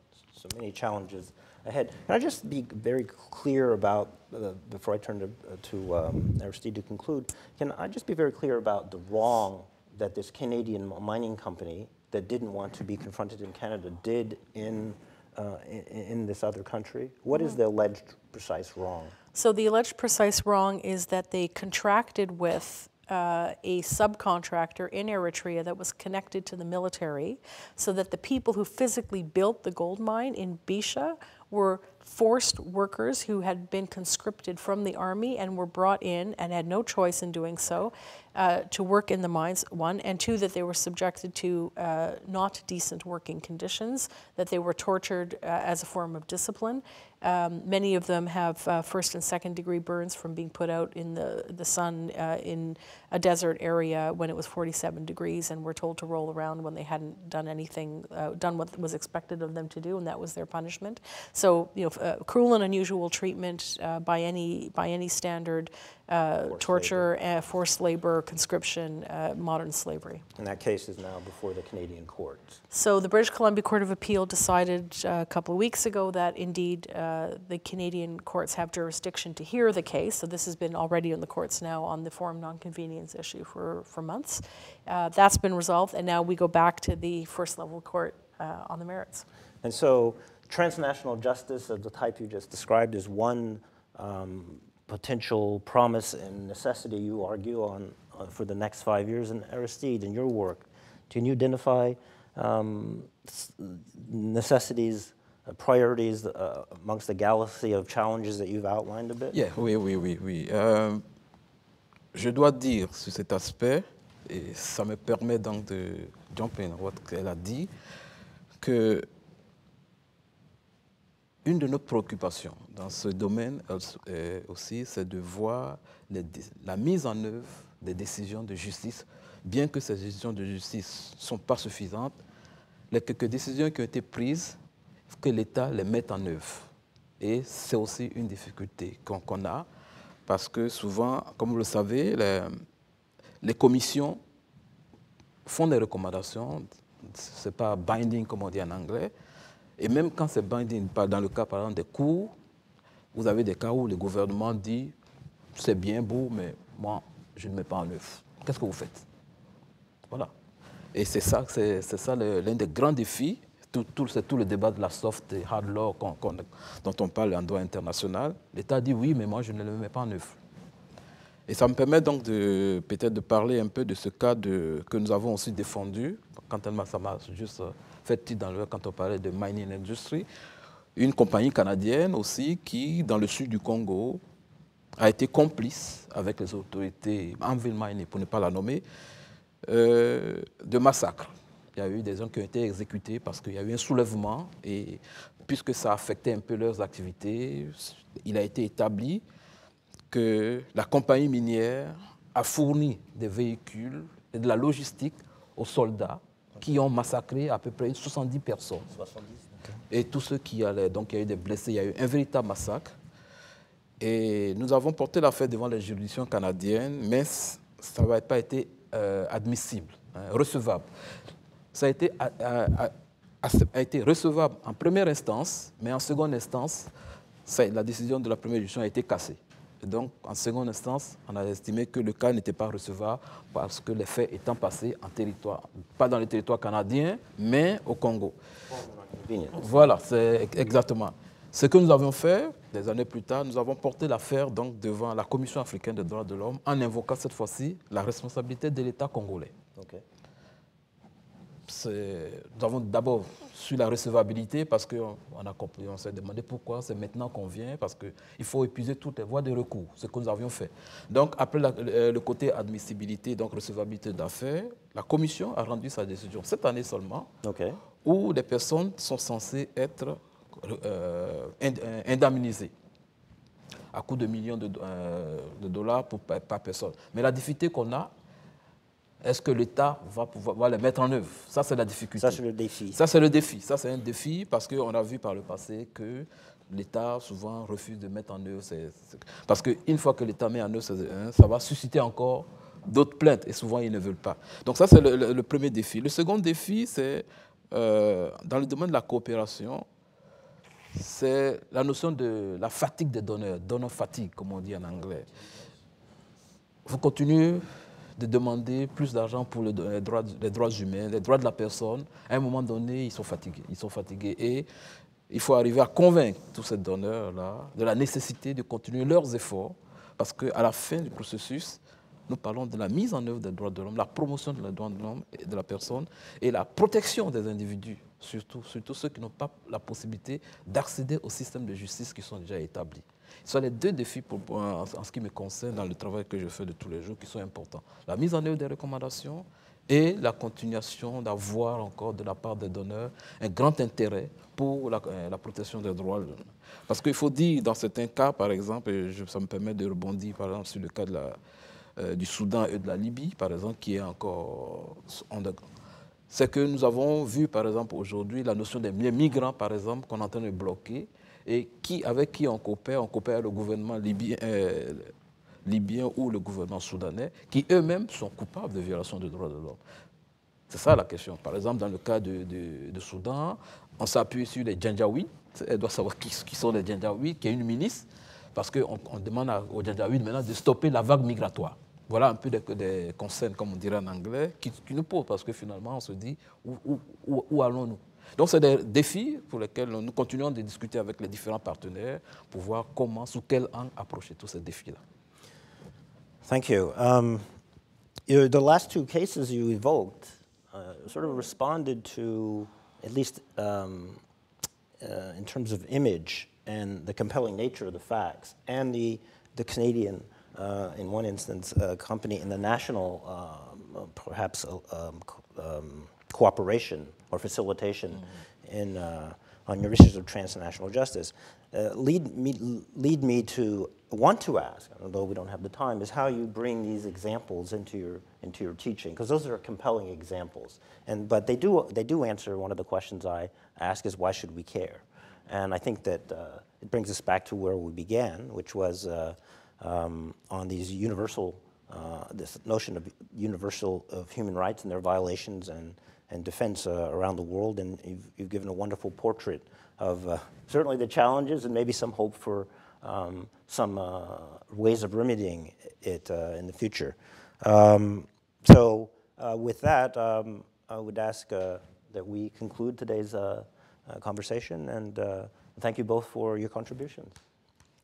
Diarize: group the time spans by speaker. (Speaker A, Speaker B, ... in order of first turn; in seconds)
Speaker A: 0.3-19.1, 66.5-67.1, 70.4-72.6, 89.6-109.4, 208.9-209.7, 238.7-239.9, 249.8-250.0, 267.4-267.8, 282.2-283.0, 396.4-397.5, 398.3-404.2, 405.0-467.4
Speaker B: 19.3-70.2, 72.7-89.3
Speaker C: 109.3-111.0, 112.1-117.7, 118.6-119.1, 121.5-132.2, 132.9-139.7, 140.3-142.6, 143.4-144.2, 145.4-149.1, 149.8-152.3, 153.1-154.9, 155.6-159.1, 160.9-170.4, 171.5-180.3, 180.9-184.2, 185.0-188.8, 189.6-199.2, 200.1-208.9, 209.9-212.9, 214.0-220.9, 221.7-226.9, 227.4-238.4, 239.6-249.5, 251.7-267.3, 268.0-272.7, 273.9-278.1, 279.2-282.4, 282.9-299.8, 300.9-305.3, 306.8-307.6, 308.2-314.7, 315.3-351.4, 352.0-355.6, 356.3-365.1, 365.6-369.8, 370.7-395.0